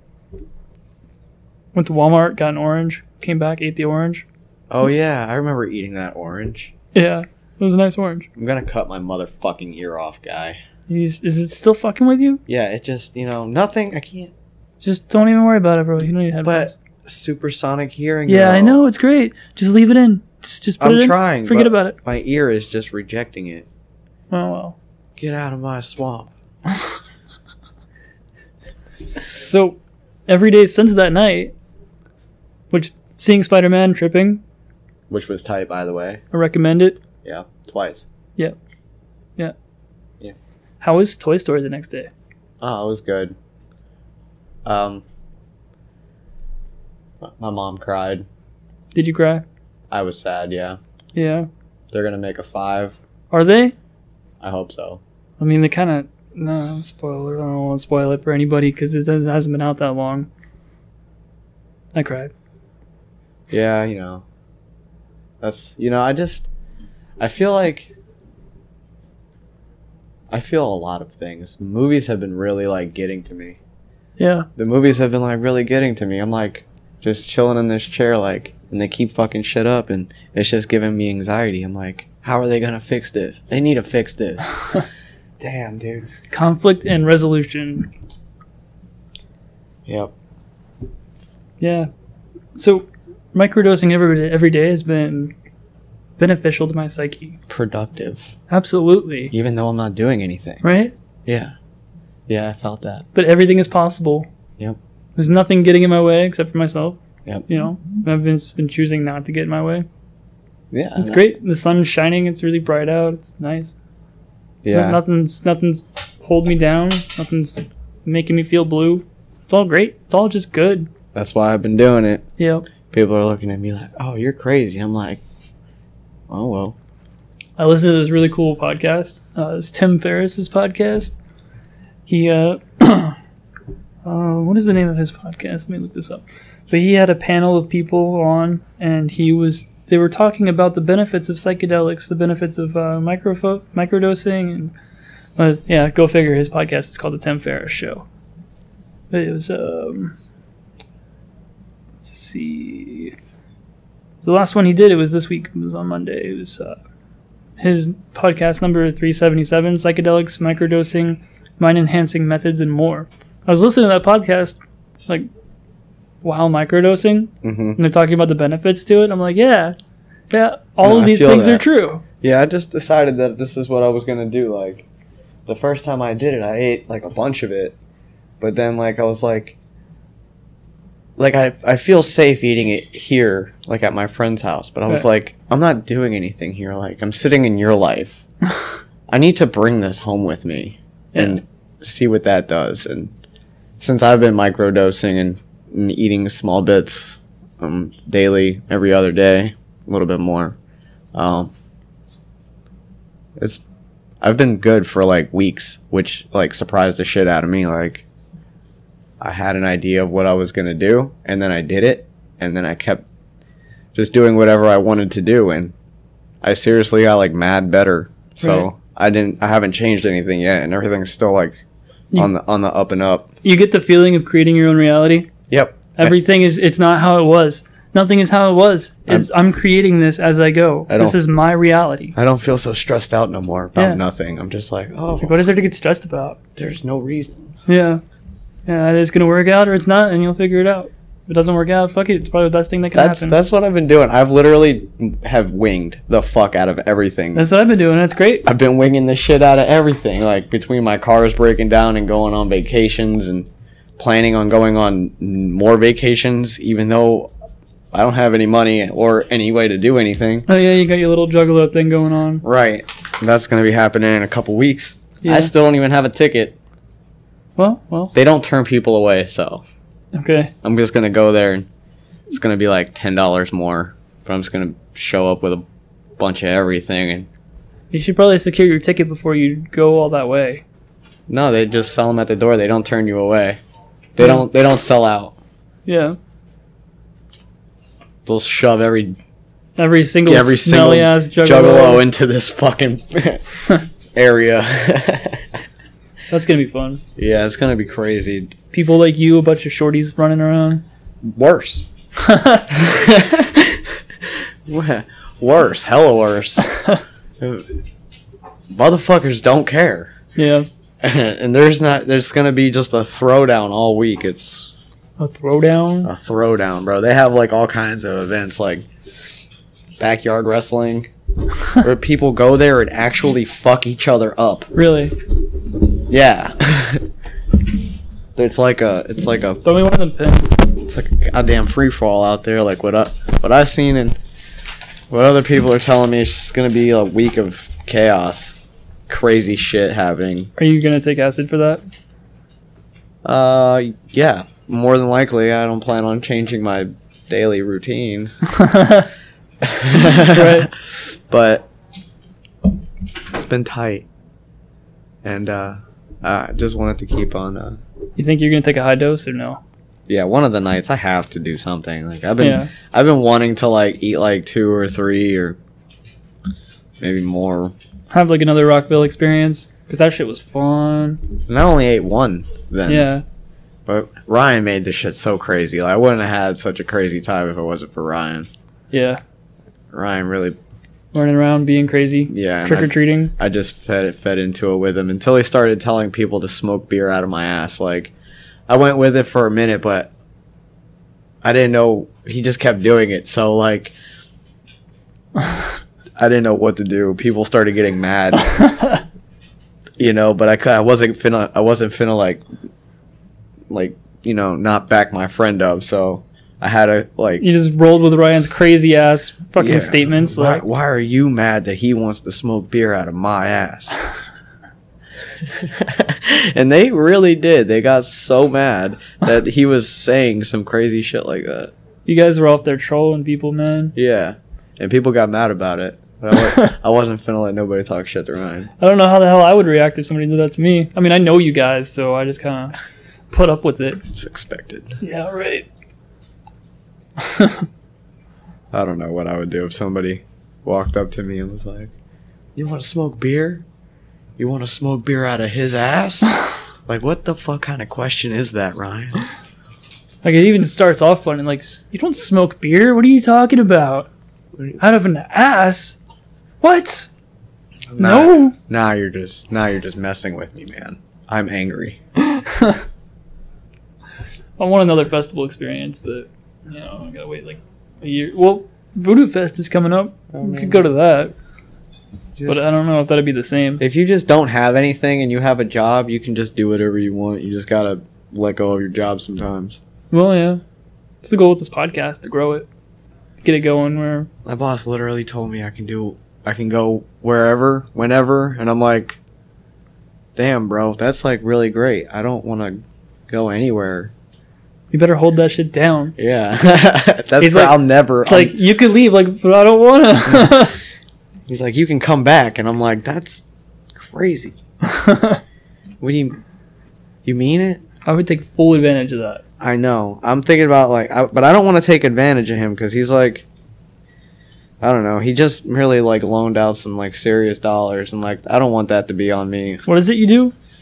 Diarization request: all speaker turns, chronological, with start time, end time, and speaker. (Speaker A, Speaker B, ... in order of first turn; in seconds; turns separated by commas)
Speaker A: 1.7-4.2, Speaker B: 4.7-6.7, Speaker A: 6.9-8.3, Speaker B: 8.3-10.6, Speaker A: 10.9-12.4, Speaker B: 12.5-14.3, Speaker A: 14.8-16.8, Speaker B: 16.4-18.8, Speaker A: 18.3-21.9, Speaker B: 20.8-23.7, Speaker A: 24.3-24.8, Speaker B: 25.2-26.3, Speaker A: 29.3-31.5, Speaker A: 32.7-34.4, Speaker B: 35.1-36.2, Speaker A: 36.3-37.0, Speaker B: 37.2-38.1, Speaker A: 40.8-42.1, Speaker B: 42.6-43.4, Speaker B: 44.6-45.0, Speaker B: 47.2-48.2, Speaker A: 48.9-49.4, Speaker B: 49.9-50.8, Speaker A: 51.1-51.5, Speaker B: 51.9-53.0, Speaker A: 53.3-53.7, Speaker B: 54.4-55.0, Speaker A: 55.4-60.3, Speaker A: 61.9-62.3, Speaker B: 63.5-64.2, Speaker B: 65.4-66.5, Speaker B: 67.2-67.9, Speaker B: 70.3-73.6, Speaker A: 74.2-74.5, Speaker B: 74.6-84.7, Speaker B: 85.4-86.1, Speaker A: 86.3-87.9, Speaker B: 89.8-90.1, Speaker A: 91.6-91.9, Speaker A: 92.6-95.3, Speaker A: 96.2-97.4, Speaker B: 97.5-98.3, Speaker A: 98.5-99.3, Speaker B: 99.3-100.6, Speaker A: 100.6-100.9, Speaker B: 101.2-101.5, Speaker B: 102.3-103.0, Speaker A: 103.1-104.3, Speaker A: 105.2-109.9, Speaker B: 110.7-111.2, Speaker A: 111.0-113.7, Speaker B: 114.6-115.0, Speaker A: 114.7-120.9, Speaker B: 121.1-122.2, Speaker A: 122.4-122.7, Speaker B: 122.9-125.2, Speaker B: 126.3-126.8, Speaker A: 127.6-131.1, Speaker A: 132.1-133.2, Speaker A: 134.1-144.7, Speaker A: 145.4-148.1, Speaker A: 149.1-150.1, Speaker A: 152.0-153.1, Speaker A: 154.2-156.8, Speaker A: 157.6-165.3, Speaker A: 166.2-169.8, Speaker B: 167.4-167.8, Speaker A: 170.3-172.0, Speaker B: 170.8-171.6, Speaker B: 172.2-174.8, Speaker B: 175.4-177.8, Speaker B: 178.4-179.6, Speaker B: 181.2-188.2, Speaker B: 189.1-193.1, Speaker A: 191.1-191.4, Speaker B: 193.8-200.6, Speaker B: 201.1-201.5, Speaker B: 203.4-203.6, Speaker B: 204.2-208.1, Speaker B: 209.2-213.0, Speaker B: 213.9-215.7, Speaker B: 216.4-221.6, Speaker A: 218.4-218.7, Speaker B: 222.1-223.3, Speaker A: 223.4-225.3, Speaker B: 225.5-226.1, Speaker A: 225.9-232.2, Speaker B: 230.9-231.2, Speaker B: 232.2-235.4, Speaker A: 233.8-234.0, Speaker A: 235.2-236.4, Speaker B: 236.6-237.6, Speaker A: 237.7-238.0, Speaker A: 238.7-243.4, Speaker B: 242.9-247.5, Speaker A: 247.3-248.4, Speaker B: 248.4-257.3, Speaker B: 257.9-260.5, Speaker A: 260.5-262.4, Speaker B: 262.4-266.6, Speaker A: 265.2-265.5, Speaker A: 267.6-268.1, Speaker B: 268.1-269.6, Speaker A: 270.1-270.5, Speaker B: 270.6-271.7, Speaker B: 272.3-275.6, Speaker B: 276.2-277.3, Speaker A: 277.9-280.6, Speaker B: 281.3-283.6, Speaker B: 284.1-285.3, Speaker A: 285.9-286.2, Speaker B: 288.2-289.2, Speaker A: 289.8-292.0, Speaker B: 290.2-293.6, Speaker B: 294.1-295.6, Speaker A: 296.3-297.0, Speaker B: 297.1-298.5, Speaker A: 298.7-300.8, Speaker B: 301.2-301.9, Speaker A: 302.1-302.8, Speaker B: 302.7-306.7, Speaker A: 306.6-307.0, Speaker B: 307.4-307.8, Speaker B: 308.7-310.1, Speaker A: 310.4-310.7, Speaker B: 311.0-314.7, Speaker A: 315.2-316.1, Speaker B: 316.0-318.8, Speaker B: 320.0-321.1, Speaker B: 321.7-324.7, Speaker A: 324.7-325.1, Speaker B: 326.1-327.1, Speaker B: 328.4-329.6, Speaker A: 329.6-330.5, Speaker B: 330.8-334.2, Speaker B: 335.1-338.6, Speaker B: 339.1-340.5, Speaker A: 340.6-341.8, Speaker B: 343.2-348.3, Speaker A: 348.5-349.1, Speaker B: 349.6-351.7, Speaker A: 350.2-350.7, Speaker B: 353.3-354.1, Speaker B: 355.2-357.8, Speaker A: 358.2-359.6, Speaker B: 360.1-365.6, Speaker A: 362.4-362.7, Speaker B: 367.0-367.7, Speaker A: 368.1-371.2, Speaker B: 371.5-373.1, Speaker A: 372.9-373.2, Speaker B: 373.9-378.5, Speaker A: 378.9-379.2, Speaker B: 379.9-380.6, Speaker A: 381.1-383.3, Speaker B: 382.3-388.1, Speaker B: 388.7-390.1, Speaker B: 391.4-393.9, Speaker B: 396.2-398.6, Speaker A: 398.6-399.0, Speaker B: 400.0-402.4, Speaker B: 403.7-407.4, Speaker A: 407.4-410.6, Speaker B: 409.6-414.0, Speaker B: 415.4-421.7, Speaker A: 422.1-423.9, Speaker B: 423.9-428.7, Speaker A: 428.8-432.7, Speaker A: 433.3-434.0, Speaker B: 434.1-435.0, Speaker A: 435.0-435.7, Speaker A: 437.2-437.7, Speaker B: 438.7-441.9, Speaker B: 442.6-443.6, Speaker B: 444.4-446.3, Speaker B: 446.9-449.2, Speaker A: 450.2-454.1, Speaker A: 454.8-456.0, Speaker A: 456.6-457.1, Speaker B: 457.9-462.0, Speaker A: 458.0-458.6, Speaker A: 462.3-462.8, Speaker A: 464.6-471.3, Speaker B: 470.3-470.9, Speaker B: 472.4-472.6, Speaker A: 472.4-473.8, Speaker B: 473.8-479.8, Speaker A: 480.1-480.6, Speaker A: 481.2-482.7, Speaker A: 483.4-484.3, Speaker B: 484.4-489.2, Speaker B: 490.4-494.1, Speaker A: 494.9-496.1, Speaker B: 496.2-498.6, Speaker A: 497.4-500.8, Speaker B: 501.5-504.6, Speaker A: 504.8-505.4, Speaker B: 506.0-506.4, Speaker B: 507.2-507.8, Speaker A: 508.1-509.4, Speaker B: 509.6-513.5, Speaker B: 514.8-519.9, Speaker A: 519.9-520.5